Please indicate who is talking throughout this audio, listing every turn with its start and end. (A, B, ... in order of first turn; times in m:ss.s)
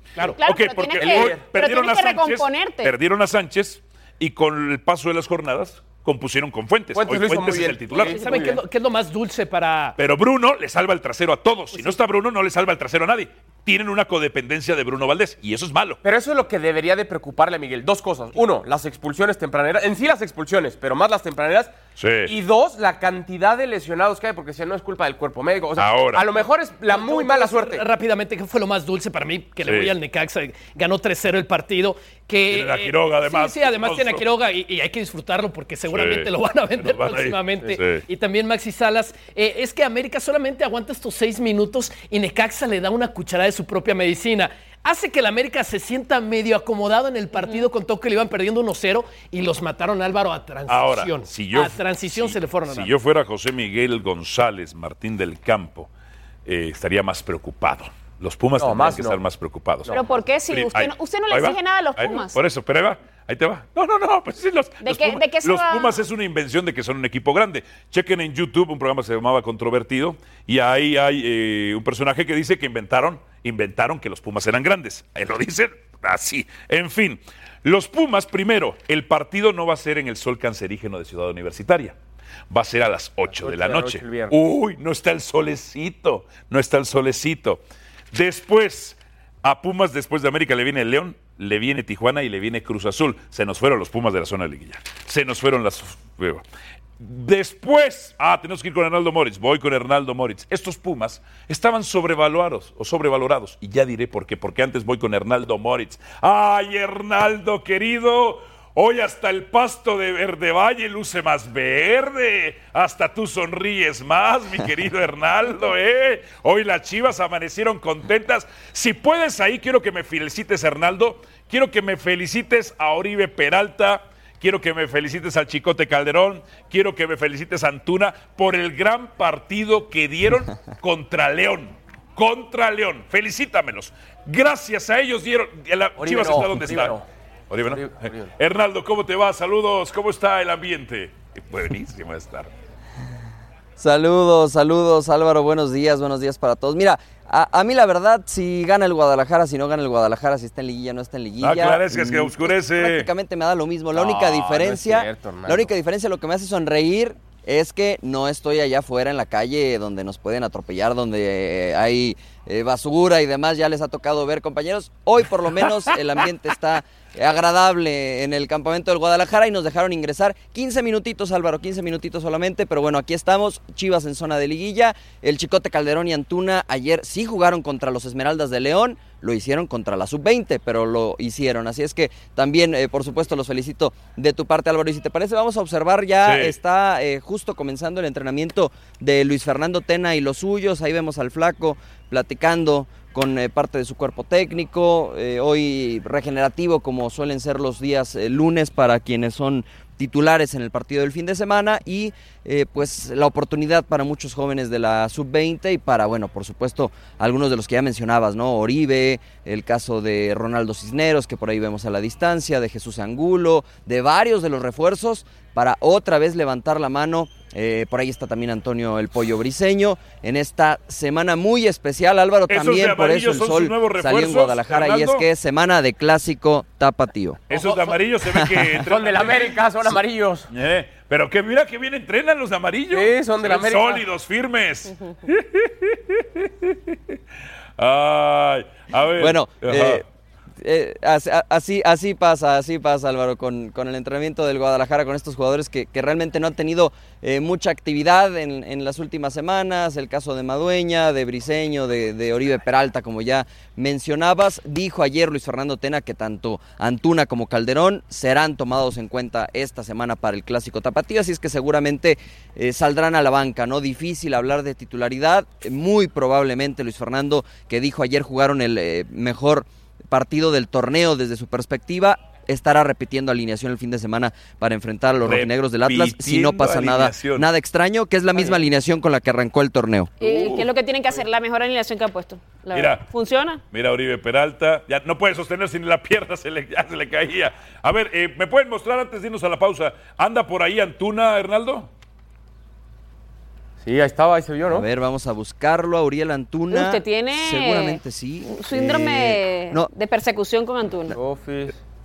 0:00.2-0:00.4 A
0:00.4-0:02.9 B
0:00.4-0:08.2 C
0:01.0-0:01.4 D
0:06.9-0:08.6 D
0:08.0-0:09.9 A
0:10.0-0:16.0 C
0:16.0-0:21.7 D
0:22.0-0:22.3 C
0:22.2-0:27.8 D
0:25.8-0:26.2 C
0:26.9-0:52.9 A
0:29.6-0:29.9 C
0:32.5-0:34.2 C
0:35.9-0:38.0 C
0:47.3-0:47.7 B
0:50.7-0:55.9 C
0:56.4-0:59.9 C
0:58.6-0:59.2 D
0:59.9-1:02.4 B
1:00.5-1:22.0 C
1:04.8-1:06.0 B
1:22.5-1:27.6 C
1:23.3-1:24.3 D
1:28.1-1:36.4 C
1:37.0-2:17.0 C
2:16.0-2:17.0 D
2:17.5-2:22.5 C
2:17.7-2:18.3 D
2:23.8-3:47.4 E
2:31.4-2:33.1 C
2:33.9-2:35.7 D
3:06.2-3:06.6 C
3:42.5-3:45.3 C
3:47.5-3:49.7 C
3:47.5-3:47.9 D
3:48.4-3:48.7 E
3:48.8-3:50.5 D
3:50.5-3:56.9 C
3:52.9-3:54.0 D
3:57.8-4:00.0 C
3:59.2-4:00.0 E
4:00.6-4:40.1 E
4:35.2-4:37.5 C
4:40.2-4:43.6 B
4:40.2-4:40.7 C
4:42.7-4:43.0 C
4:43.7-4:51.9 C
4:53.8-4:54.9 D
4:54.7-4:59.9 E
4:56.7-5:01.2 B
5:01.1-5:01.8 D